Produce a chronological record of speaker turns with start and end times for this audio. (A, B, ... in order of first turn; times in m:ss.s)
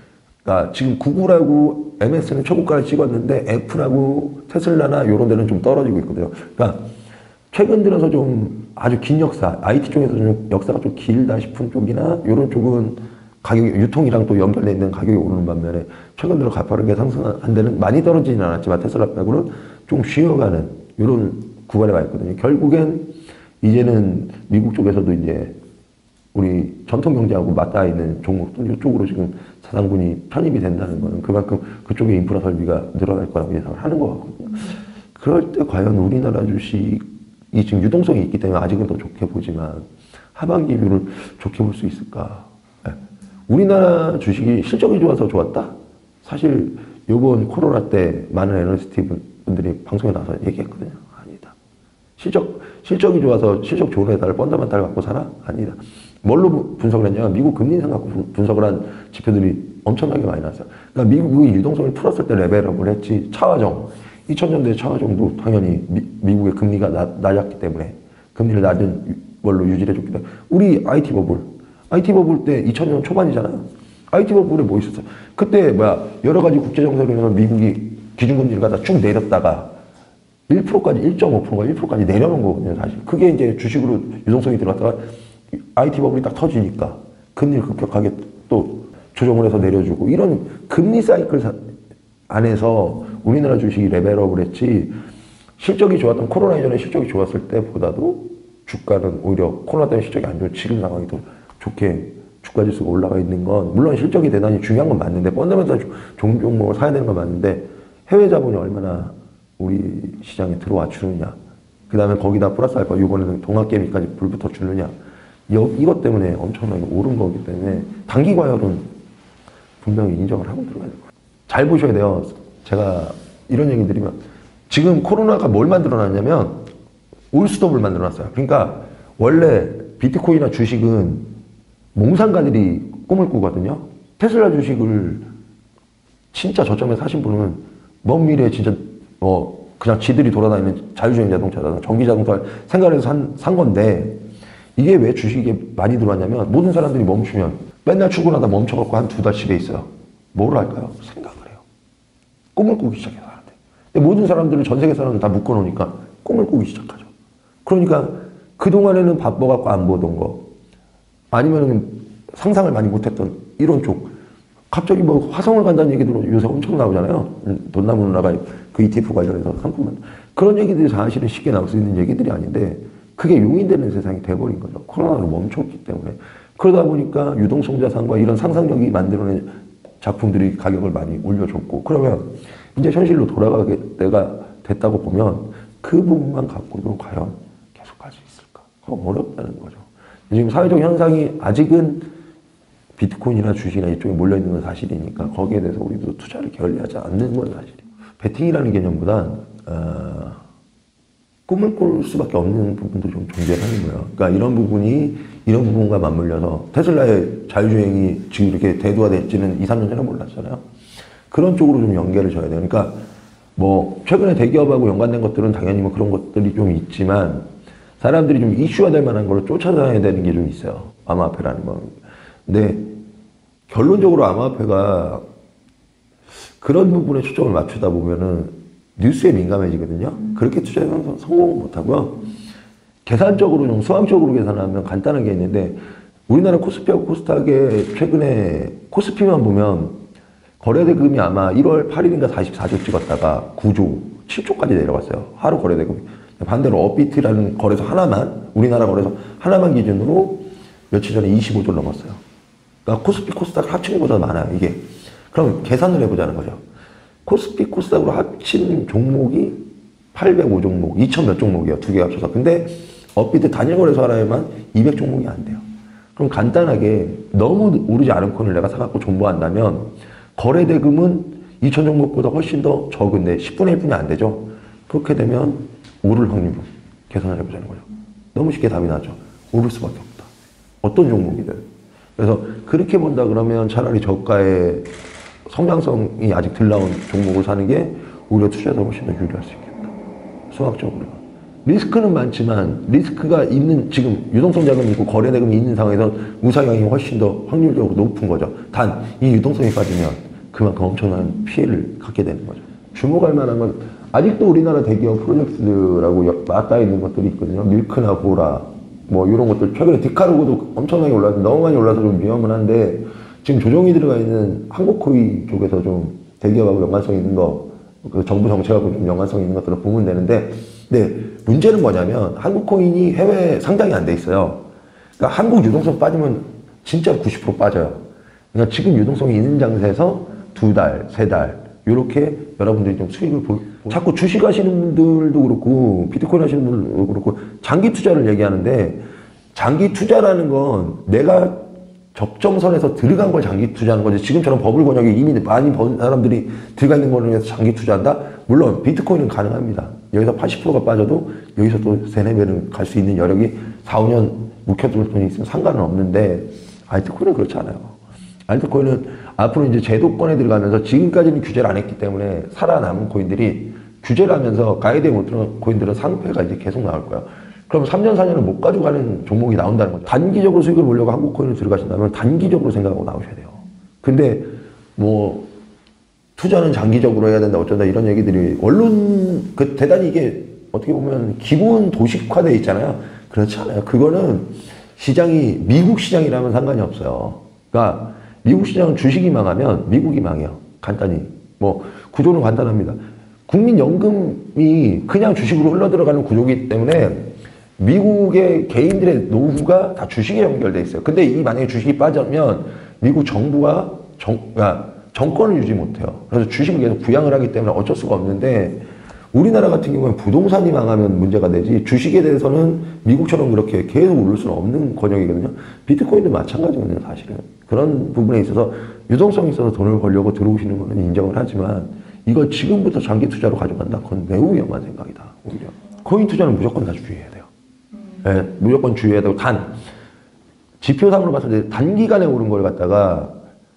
0:00.4-0:06.9 A
0:07.5-0:25.5 A
0:26.3-0:51.5 A
0:52.2-1:19.7 A
1:20.5-1:25.0 A
1:25.7-1:31.6 A
1:32.3-1:35.0 A
1:35.6-1:51.4 A
1:51.9-1:54.9 A
1:55.5-1:58.9 A
1:59.8-2:04.2 A
2:04.7-2:06.7 A
2:07.3-2:11.3 A
2:11.9-2:15.3 A
2:16.3-2:24.2 A
2:24.8-2:31.6 A
2:32.5-2:37.1 A
2:37.6-2:40.5 A
2:41.3-2:44.1 A
2:44.7-3:12.1 A
3:13.0-3:20.4 A
3:21.5-3:30.6 A
3:31.3-3:33.0 A
3:33.6-3:37.5 A
3:38.0-3:43.0 A
3:43.7-3:45.2 A
3:46.6-3:52.2 A
3:53.0-4:00.0 A
4:00.6-4:12.2 A
4:12.8-4:16.6 A
4:17.2-4:25.6 A
4:26.2-4:40.3 A
4:40.8-4:41.6 A
4:42.2-4:44.9 A
4:45.5-4:49.9 A
4:50.5-5:24.6 A
5:25.2-5:39.0 A
5:39.5-6:15.5 A
6:16.4-7:07.5 A
7:08.2-7:09.8 A
7:10.8-7:13.4 A